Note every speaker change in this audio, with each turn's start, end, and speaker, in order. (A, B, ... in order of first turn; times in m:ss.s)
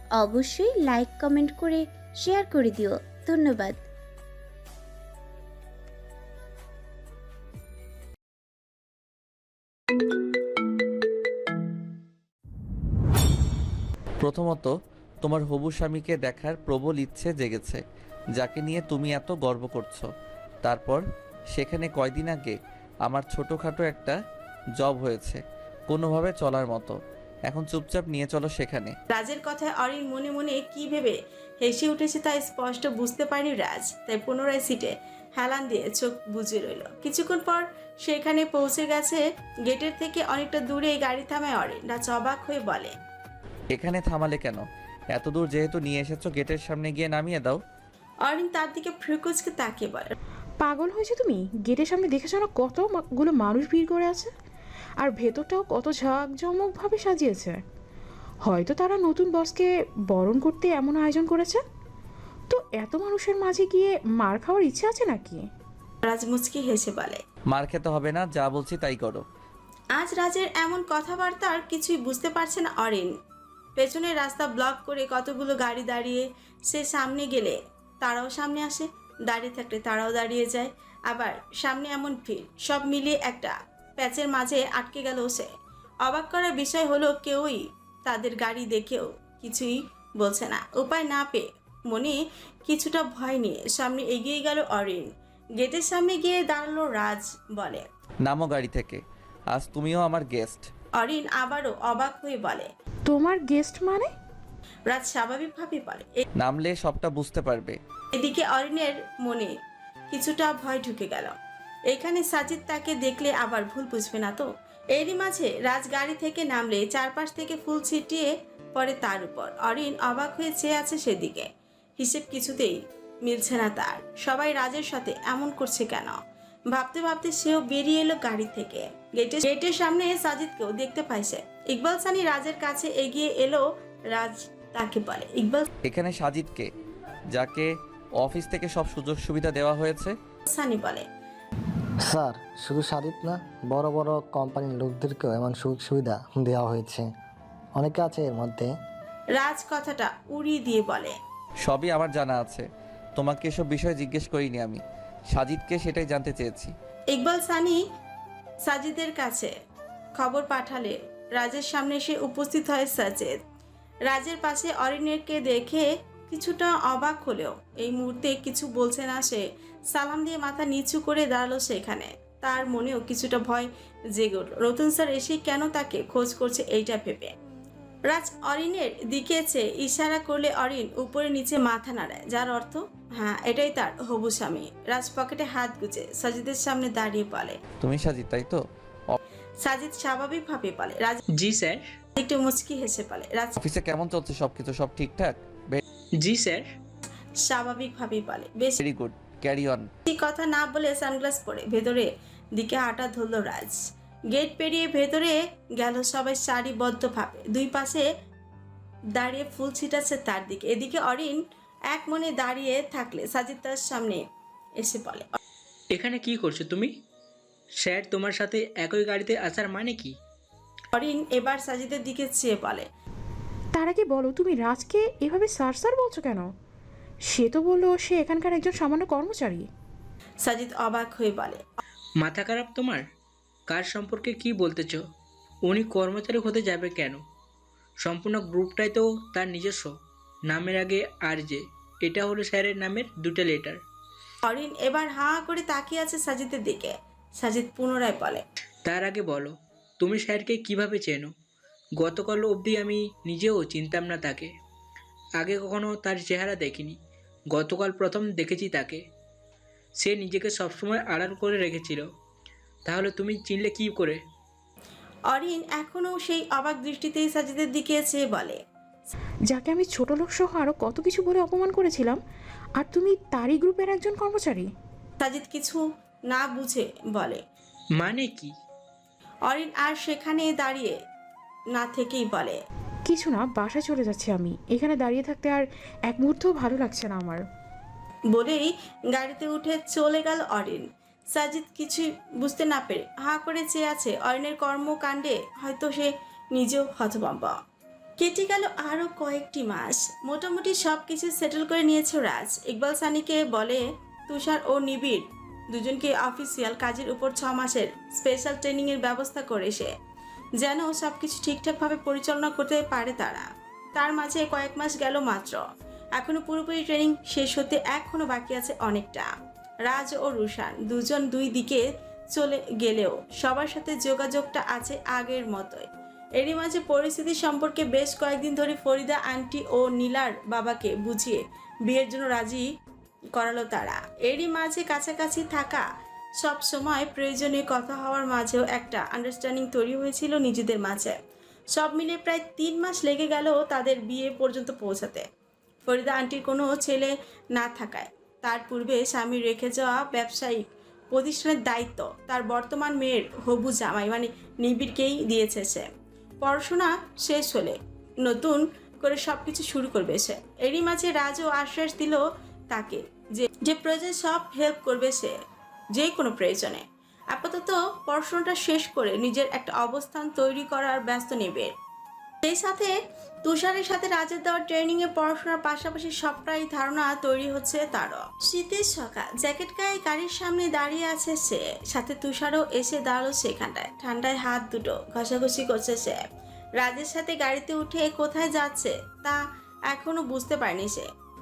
0:00.2-0:03.8 A
0:14.2-0:17.8 B
0:18.3-0:20.1 B
0:20.6-0:24.2 B
0:24.8-0:26.9 B
0:27.5-0:29.0 B
0:29.1-0:42.9 C
0:43.7-0:47.6 B
0:48.2-0:50.1 C
0:50.6-0:54.3 D
0:55.0-0:57.6 D
0:58.4-1:01.6 D
1:02.5-1:05.4 D
1:06.0-1:07.2 C
1:07.5-1:09.2 B
1:10.0-1:13.1 C
1:13.8-1:25.5 C
1:26.0-1:37.8 C
1:38.2-1:40.7 B
1:41.0-1:42.7 C
1:43.1-1:44.1 D
1:44.9-1:46.2 C
1:46.4-1:47.8 B
1:48.1-1:49.5 C
1:50.1-1:51.4 C
1:51.9-2:01.5 C
2:02.0-2:06.2 C
2:06.7-2:15.7 C
2:15.8-2:16.7 B
2:17.3-2:20.2 B
2:20.5-2:21.0 C
2:22.0-2:27.1 E
2:27.8-2:28.7 E
2:29.3-2:31.2 C
2:31.6-2:36.7 B
2:37.1-2:37.8 C
2:38.6-2:39.5 C
2:40.2-2:43.4 C
2:44.1-2:57.3 C
2:58.1-3:07.6 C
3:07.8-3:09.2 B
3:09.6-3:11.2 C
3:11.4-3:11.8 F
3:12.2-3:13.6 C
3:13.6-3:15.8 B
3:16.2-3:16.7 F
3:17.4-3:18.8 C
3:18.8-3:19.9 B
3:20.1-3:23.8 C
3:24.3-3:28.0 C
3:29.1-3:31.4 C
3:31.9-3:34.2 C
3:34.8-3:35.3 C
3:35.9-3:36.9 F
3:37.8-3:40.1 F
3:40.9-3:42.9 C
3:43.7-3:46.5 D
3:47.3-3:49.7 D
3:50.4-3:51.6 C
3:52.2-3:53.0 F
3:53.7-3:55.0 F
3:55.6-3:57.2 F
3:58.0-4:00.0 F
4:00.5-4:03.8 F
4:04.4-4:08.4 C
4:08.8-4:11.3 F
4:12.0-4:14.5 F
4:15.4-4:17.0 F
4:17.5-4:19.0 F
4:20.0-4:22.0 F
4:22.8-4:24.2 F
4:25.3-4:28.6 C
4:29.5-4:32.2 D
4:32.8-4:34.7 D
4:35.2-4:37.4 C
4:38.0-4:38.5 F
4:39.5-4:41.0 C
4:41.7-4:42.6 C
4:43.1-4:47.4 D
4:48.3-4:57.6 C
4:58.2-5:09.9 C
5:10.6-5:15.6 C
5:16.2-5:19.3 C
5:19.8-5:32.7 C
5:33.3-5:35.8 C
5:36.4-5:41.2 C
5:41.7-5:45.2 C
5:45.8-5:55.9 C
5:56.4-6:05.4 C
6:05.9-6:11.7 C
6:12.4-6:26.2 C
6:26.8-6:31.1 C